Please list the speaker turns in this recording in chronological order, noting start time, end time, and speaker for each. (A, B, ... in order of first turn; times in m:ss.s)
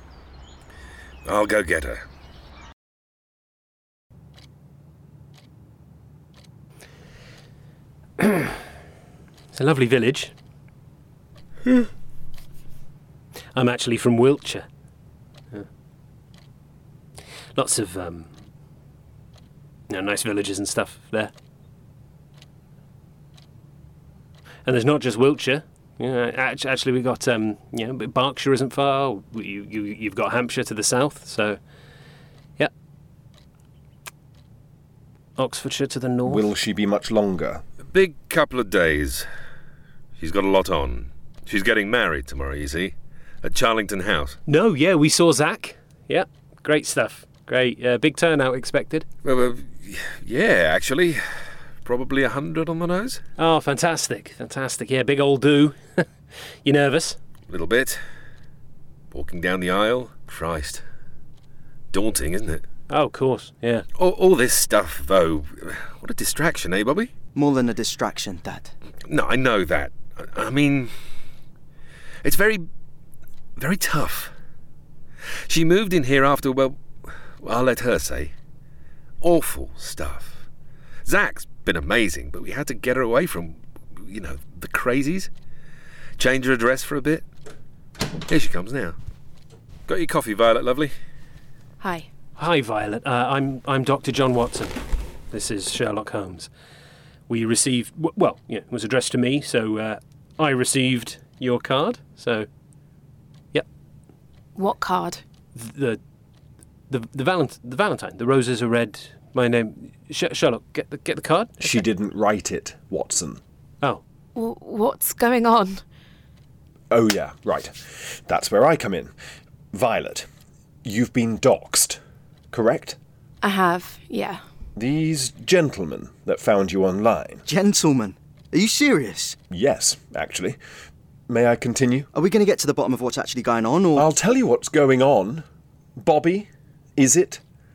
0:01.2-0:02.0 A
0:08.2-0:08.6 B
0:09.5-0:10.3 B
0:13.6-0:14.7 B
0:17.6-0:18.3 B
0:19.9-0:21.3 B
0:24.6-0:31.6 B
0:35.4-0:36.5 B
0:36.3-0:37.6 C
0:37.9-0:39.3 A
0:40.2-0:44.4 A
0:44.5-0:49.1 B
0:49.2-0:53.2 A
0:53.4-0:56.1 B
0:56.6-0:57.2 B
0:57.5-0:58.0 A
0:59.1-1:00.8 A
1:01.9-1:02.6 A
1:02.9-1:03.9 B
1:04.0-1:07.1 A
1:07.4-1:08.7 D
1:09.1-1:11.0 A
1:12.2-1:12.7 A
1:13.6-1:14.3 A
1:15.5-1:18.3 A
1:19.2-1:20.4 A
1:21.0-1:25.3 A
1:26.2-1:27.3 A
1:28.3-1:29.0 A
1:29.9-1:30.9 A
1:31.8-1:32.1 E
1:32.4-1:34.8 B
1:35.3-1:36.5 B
1:37.3-1:42.5 B
1:44.6-1:45.2 E
1:45.6-1:46.0 B
1:46.9-1:51.8 B
1:51.6-1:53.4 C
1:54.4-1:55.8 E
1:56.9-1:59.1 C
1:59.7-2:00.3 C
2:00.8-2:02.0 C
2:02.5-2:03.0 C
2:03.4-2:04.4 E
2:04.8-2:07.4 C
2:07.5-2:09.4 D
2:09.5-2:10.6 C
2:11.3-2:12.1 C
2:12.1-2:14.1 D
2:14.0-2:15.4 C
2:16.0-2:17.4 C